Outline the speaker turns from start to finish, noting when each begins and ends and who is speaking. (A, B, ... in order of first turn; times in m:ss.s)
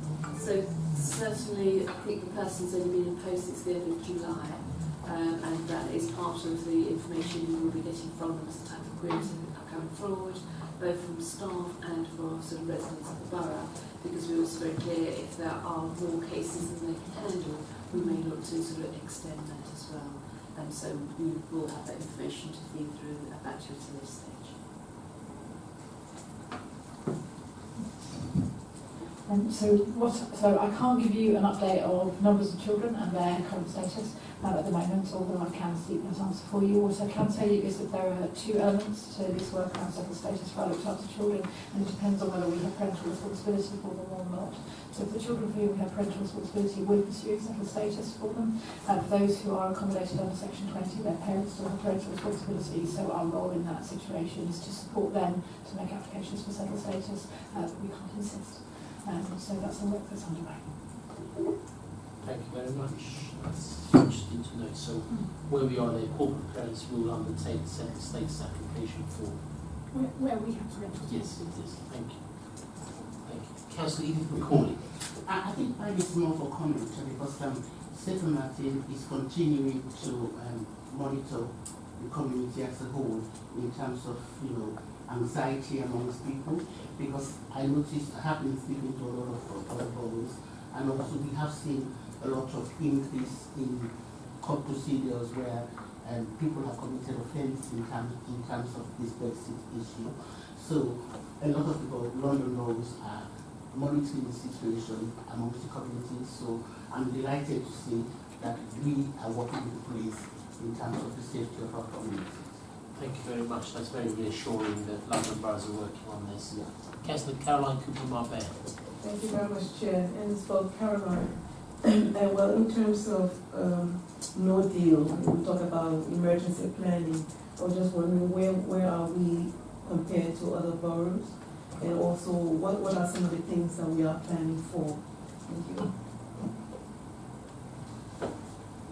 0:00.3-0:24.7 A
0:27.8-0:28.6 B
0:29.2-1:01.1 B
1:02.2-1:09.9 C
1:09.9-1:11.4 B
1:10.7-1:14.9 C
1:14.8-1:52.7 D
1:52.9-1:58.8 C
1:56.5-1:56.8 D
1:59.0-2:16.0 E